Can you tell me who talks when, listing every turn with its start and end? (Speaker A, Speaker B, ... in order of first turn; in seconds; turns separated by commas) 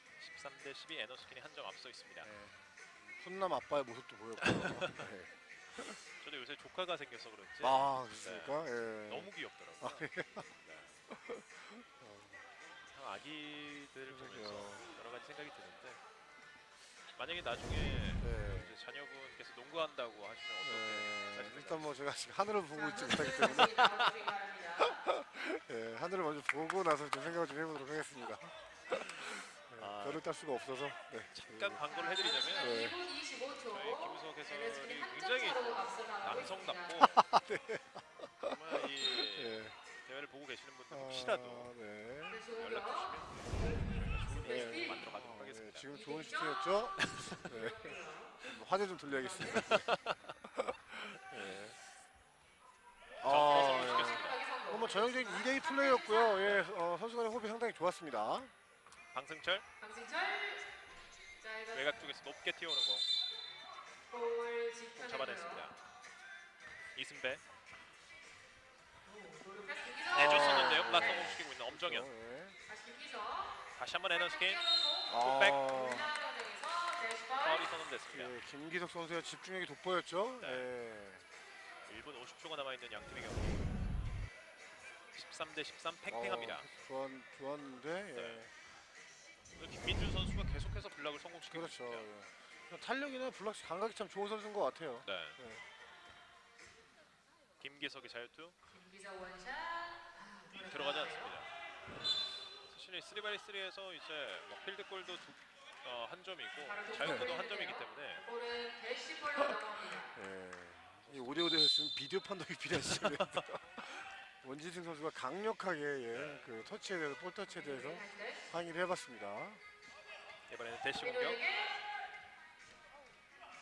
Speaker A: 0.2-2.3, Speaker B: 2.2-6.0, Speaker A: 4.4-5.1, Speaker A: 6.2-10.1, Speaker B: 7.6-10.5, Speaker A: 10.6-11.0, Speaker B: 11.1-12.4, Speaker A: 12.9-16.0, Speaker B: 14.1-14.9, Speaker A: 16.9-21.9, Speaker B: 18.2-18.7, Speaker B: 20.6-23.9, Speaker C: 22.7-25.0, Speaker A: 23.8-24.1, Speaker B: 24.8-31.8, Speaker A: 28.9-30.2, Speaker A: 31.3-32.8, Speaker C: 31.9-37.1, Speaker B: 32.6-33.0, Speaker A: 33.7-37.2, Speaker B: 37.0-39.8, Speaker A: 38.4-41.7, Speaker B: 40.9-42.4, Speaker C: 42.3-45.1, Speaker A: 42.5-45.9, Speaker B: 44.4-49.9, Speaker C: 45.9-48.4, Speaker A: 47.0-47.6, Speaker C: 49.0-49.8, Speaker A: 49.5-50.3, Speaker B: 50.4-51.8, Speaker B: 53.2-58.5, Speaker A: 53.2-54.4, Speaker C: 53.3-56.5, Speaker A: 56.4-56.7, Speaker A: 59.1-59.6, Speaker C: 59.8-60.6, Speaker C: 61.4-62.1, Speaker A: 61.7-63.0, Speaker C: 64.1-65.7, Speaker A: 65.0-65.8, Speaker A: 66.9-67.4, Speaker C: 69.0-71.3, Speaker B: 70.1-72.6, Speaker A: 70.1-72.1, Speaker C: 72.7-77.8, Speaker A: 73.7-74.6, Speaker B: 75.1-76.1, Speaker A: 75.2-75.7, Speaker A: 77.4-78.4, Speaker B: 78.1-81.2, Speaker A: 80.4-80.7, Speaker A: 81.8-83.9, Speaker B: 83.6-83.8, Speaker A: 85.1-86.7, Speaker B: 86.1-88.5, Speaker A: 88.1-88.4, Speaker A: 89.6-92.1, Speaker B: 91.5-95.6, Speaker A: 95.0-95.4, Speaker A: 97.6-98.5, Speaker C: 98.7-101.4, Speaker A: 100.5-101.5, Speaker A: 102.6-108.2, Speaker C: 106.6-110.1, Speaker B: 107.0-107.3, Speaker B: 110.1-119.6, Speaker A: 111.0-111.6, Speaker A: 112.8-113.5, Speaker A: 116.1-116.5, Speaker C: 117.5-118.4, Speaker A: 120.5-121.4, Speaker C: 121.0-121.8